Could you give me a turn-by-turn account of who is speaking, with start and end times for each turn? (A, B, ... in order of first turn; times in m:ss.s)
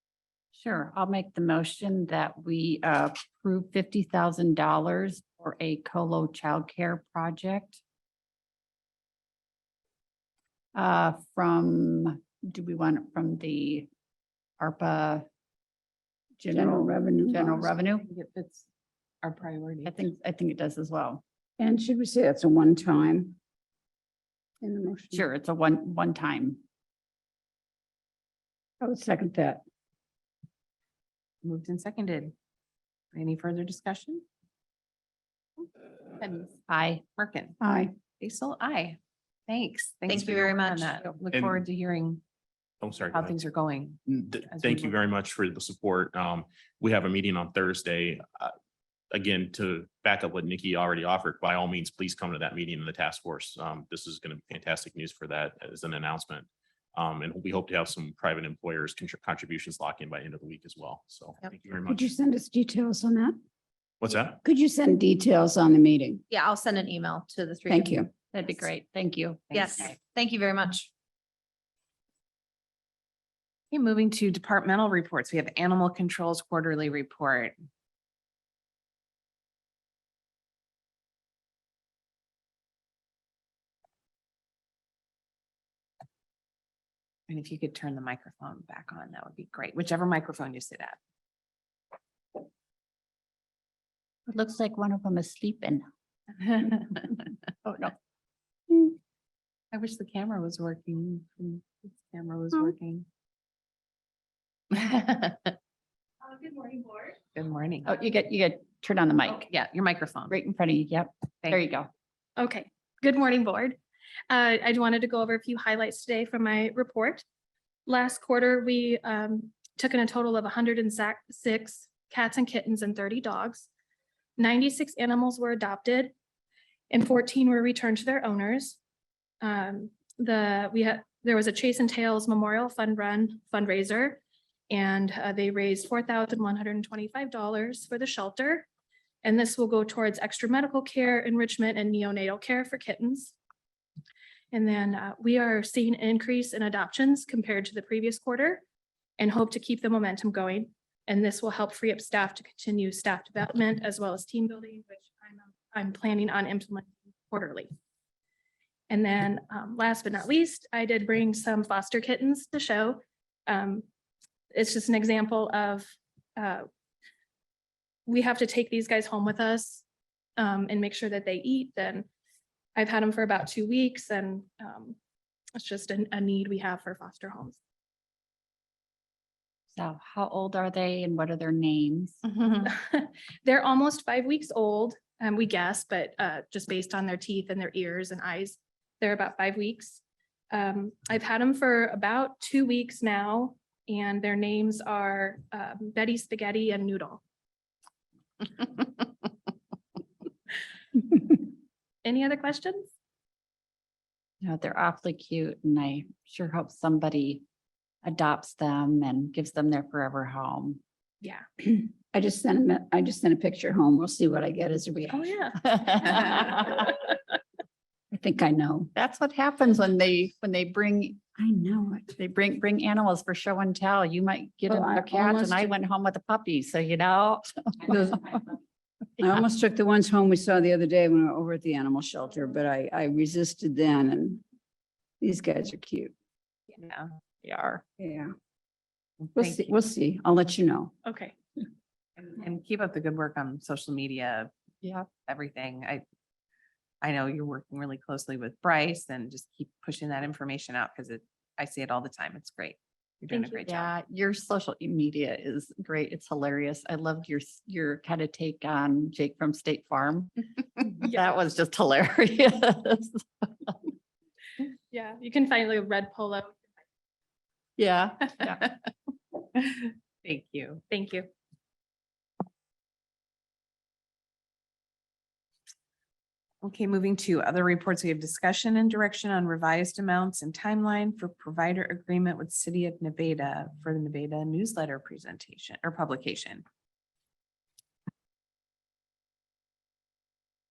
0:00.5-0:07.8 A
0:10.7-0:13.9 A
0:14.6-0:15.2 A
0:16.4-0:18.0 A
0:16.5-0:17.7 B
0:18.0-0:18.7 C
0:19.2-0:20.0 C
0:19.8-0:21.2 A
0:21.6-0:23.4 B
0:24.6-0:25.2 B
0:25.1-0:26.6 A
0:28.8-0:29.6 B
0:31.4-0:32.3 C
0:33.1-0:34.2 C
0:36.2-0:36.5 C
0:36.7-0:37.0 A
0:37.2-0:37.6 C
0:37.6-0:37.9 B
0:38.2-0:42.2 C
0:40.1-0:40.9 D
0:41.3-0:41.6 E
0:42.8-0:43.4 E
0:43.0-0:45.0 C
0:44.1-0:48.5 E
0:49.1-1:02.1 E
1:01.8-1:03.3 B
1:04.0-1:04.4 E
1:04.4-1:06.2 B
1:06.3-1:07.9 D
1:07.7-1:08.1 B
1:08.3-1:10.0 A
1:09.5-1:10.9 D
1:09.5-1:09.9 C
1:13.7-1:17.6 C
1:27.3-1:31.0 C
1:34.3-1:35.8 A
1:36.6-1:36.8 C
1:37.6-1:37.9 A
1:39.7-1:43.0 C
1:44.7-1:45.5 C
1:46.4-1:46.9 F
1:47.3-1:47.9 C
1:47.8-1:49.5 A
1:49.5-1:50.3 C
1:50.3-1:51.9 A
1:52.4-1:53.8 F
1:54.3-1:57.2 F
1:57.9-2:03.7 F
2:04.4-2:06.1 F
2:06.9-2:08.8 F
2:09.4-2:18.6 F
2:19.2-2:23.3 F
2:24.5-2:28.6 F
2:29.2-2:37.7 F
2:38.9-2:43.8 F
2:44.5-2:46.6 F
2:48.1-2:49.8 F
2:50.4-2:52.0 F
2:52.8-2:55.0 F
2:55.6-2:57.6 F
2:59.7-3:02.2 A
3:02.3-3:02.6 C
3:02.6-3:17.2 F
3:22.0-3:22.9 F
3:24.4-3:27.4 A
3:28.0-3:30.8 A
3:32.1-3:35.3 B
3:35.1-3:36.1 F
3:35.6-3:37.0 A
3:38.1-3:38.9 B
3:38.9-3:48.4 A
3:44.7-3:45.7 B
3:47.9-3:48.3 B
3:49.2-3:54.4 B
3:55.2-3:56.1 B
3:56.8-3:57.1 C
3:57.4-3:57.8 A
3:58.0-3:58.3 B
3:59.2-3:59.7 C
3:59.4-4:00.9 B
4:01.0-4:01.3 F
4:02.2-4:04.5 C
4:05.2-4:06.0 C
4:07.0-4:13.9 C
4:13.5-4:23.8 A
4:24.9-4:26.6 F
4:27.8-4:28.6 A
4:29.6-4:30.8 C
4:30.9-4:31.3 F
4:36.6-4:46.6 C